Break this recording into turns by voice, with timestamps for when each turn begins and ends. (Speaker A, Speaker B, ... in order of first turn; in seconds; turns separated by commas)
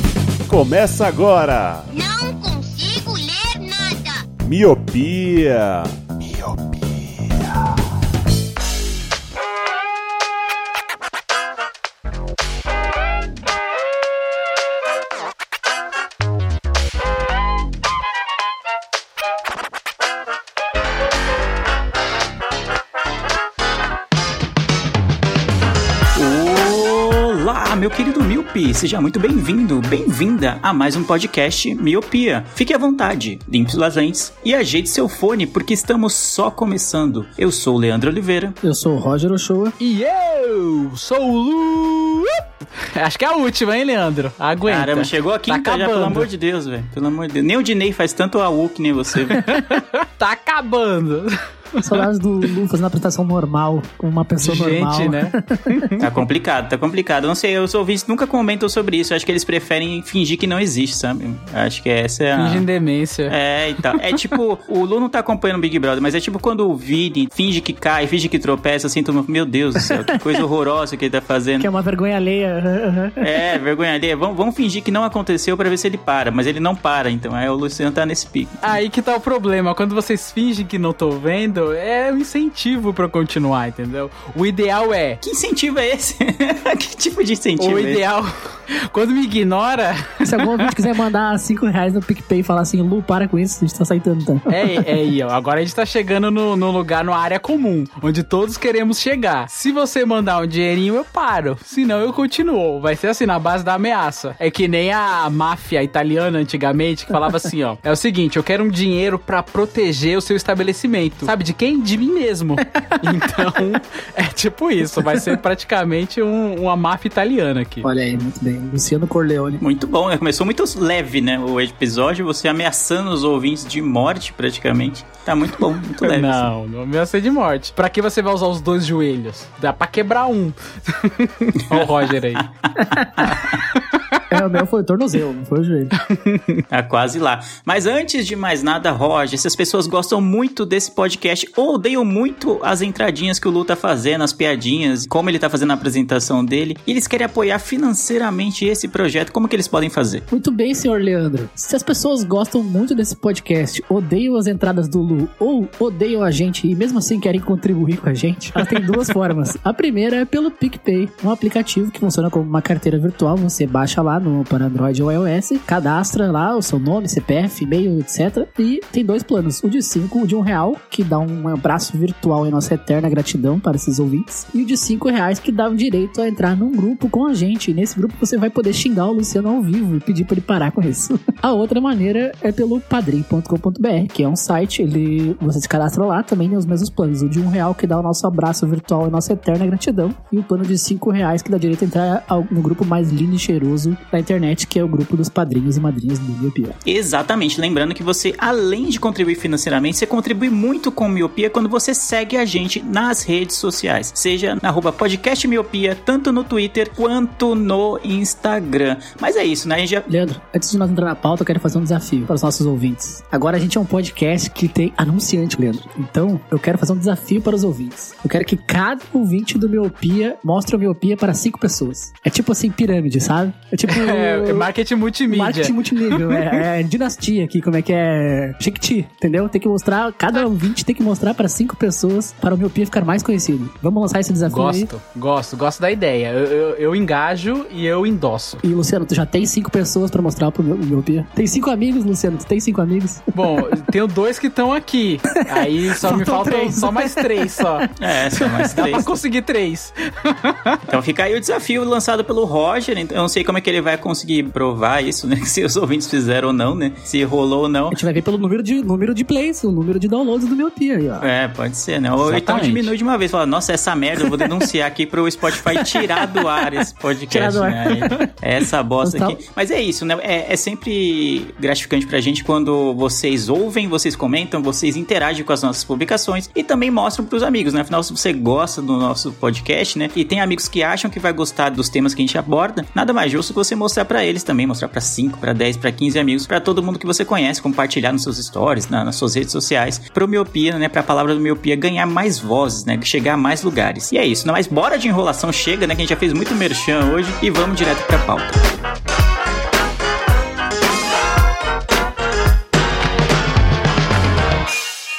Speaker A: 0.5-1.9, Speaker B: 1.9-4.2, Speaker A: 4.4-7.7, Speaker C: 26.1-38.6, Speaker D: 38.6-39.8, Speaker E: 39.8-42.4, Speaker E: 42.9-46.3, Speaker C: 44.7-49.5, Speaker E: 49.3-52.0, Speaker D: 51.8-55.8, Speaker E: 54.4-56.0, Speaker C: 56.0-62.6, Speaker E: 62.4-63.4, Speaker C: 63.3-71.7, Speaker D: 69.8-70.1, Speaker D: 71.6-73.4, Speaker C: 73.2-78.7, Speaker E: 78.6-85.2, Speaker C: 85.2-88.0, Speaker E: 87.6-90.7, Speaker D: 90.2-94.9, Speaker E: 94.5-117.9, Speaker D: 117.8-119.6, Speaker C: 119.6-126.5, Speaker E: 126.0-132.4, Speaker C: 131.7-133.6, Speaker E: 133.7-134.2, Speaker D: 134.3-135.9, Speaker E: 136.0-136.6, Speaker C: 136.7-150.2, Speaker D: 150.3-196.8, Speaker C: 196.9-210.1, Speaker D: 210.1-224.7, Speaker E: 223.9-226.6, Speaker D: 225.3-234.9, Speaker E: 234.5-238.6, Speaker D: 238.6-243.7, Speaker E: 243.3-247.9, Speaker D: 245.5-249.0, Speaker C: 248.0-249.1, Speaker E: 248.7-250.8, Speaker C: 250.9-258.0, Speaker D: 257.9-261.3, Speaker C: 261.2-298.6, Speaker E: 262.2-262.9, Speaker D: 265.6-266.2, Speaker D: 267.3-268.3, Speaker D: 269.0-269.4